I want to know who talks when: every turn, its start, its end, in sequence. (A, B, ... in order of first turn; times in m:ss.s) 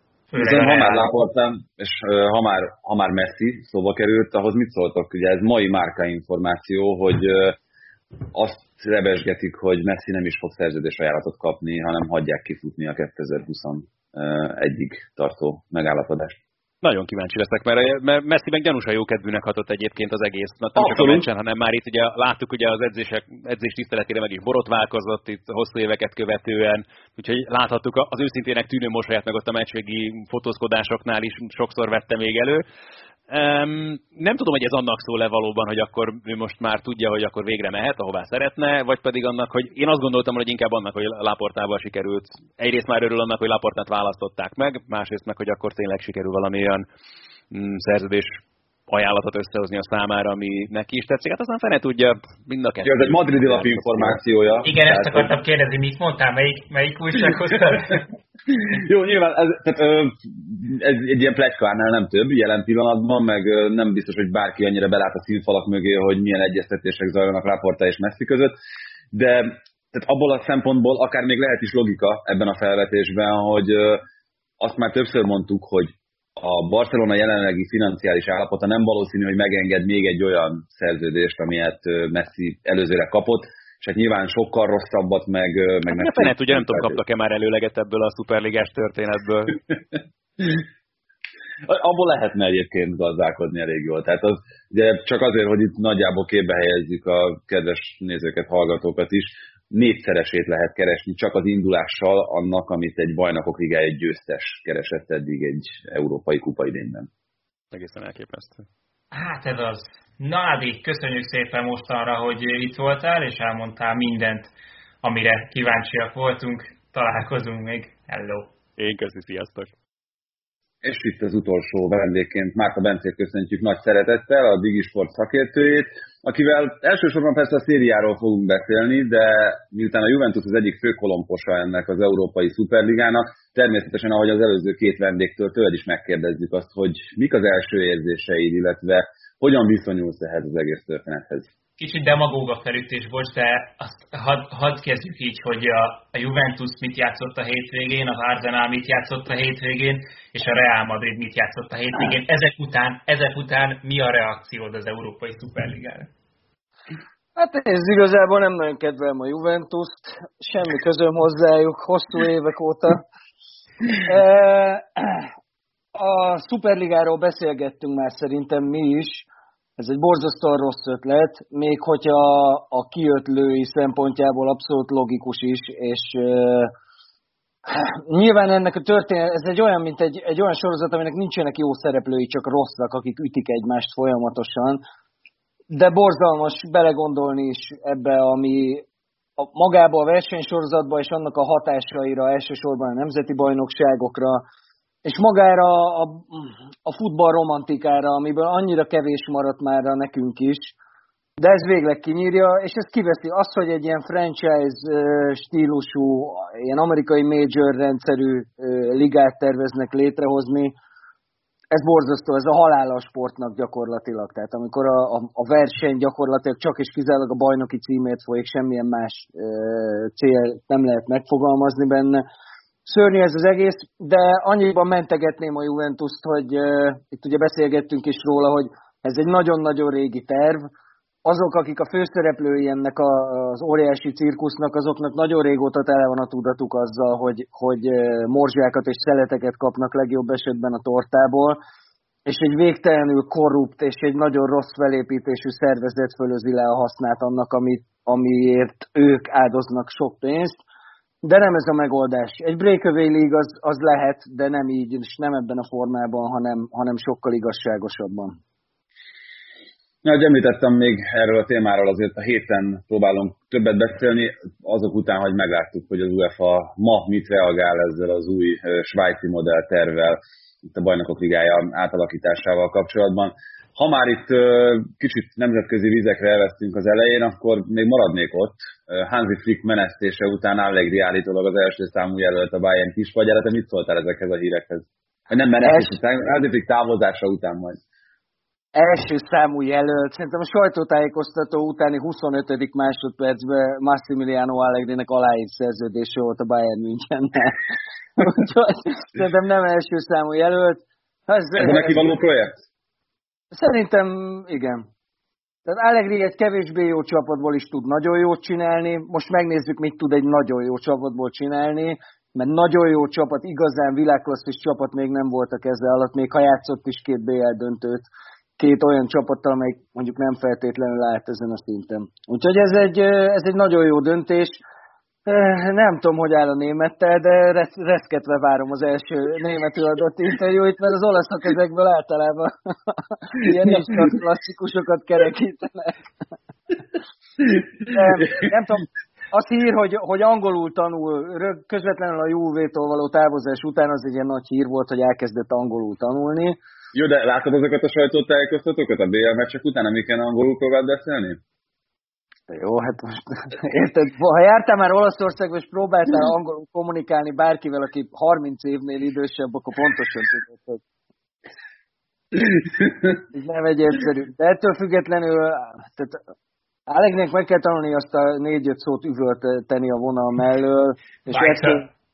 0:00.3-0:01.1 A
0:00.4-0:07.6 B
0:08.3-0:16.4 B
0:16.8-0:32.6 C
0:20.8-0:21.3 B
0:33.3-0:46.8 C
0:47.5-0:54.2 C
0:52.8-0:55.3 B
0:54.6-0:58.0 A
0:58.7-1:08.5 B
1:09.1-1:14.0 B
1:14.6-1:27.0 B
1:25.9-1:29.6 C
1:31.7-1:47.1 B
1:47.7-1:48.6 C
1:49.1-1:54.5 A
1:55.0-1:58.5 A
1:58.8-1:59.7 C
2:00.8-2:21.5 B
2:21.8-2:36.1 A
2:37.4-2:43.0 D
2:44.0-2:45.3 D
2:45.9-2:49.3 D
2:49.8-2:56.7 D
2:57.7-3:04.8 D
3:05.7-3:08.8 D
3:09.4-3:14.4 D
3:15.0-3:20.7 D
3:21.4-3:30.7 D
3:31.7-3:42.2 D
3:42.8-3:50.7 D
3:51.2-4:01.6 D
4:02.2-4:10.6 D
4:11.2-4:18.4 D
4:20.0-4:30.2 B
4:30.7-4:47.8 B
4:45.6-4:45.9 D
4:48.7-4:57.6 D
4:58.2-5:02.1 D
5:01.5-5:02.6 B
5:03.5-5:04.8 D
5:05.6-5:24.6 D
5:25.2-5:36.0 D
5:37.8-5:46.6 D
5:46.9-5:51.4 B
5:52.5-6:00.8 D
6:03.1-6:06.2 D
6:06.9-6:11.9 D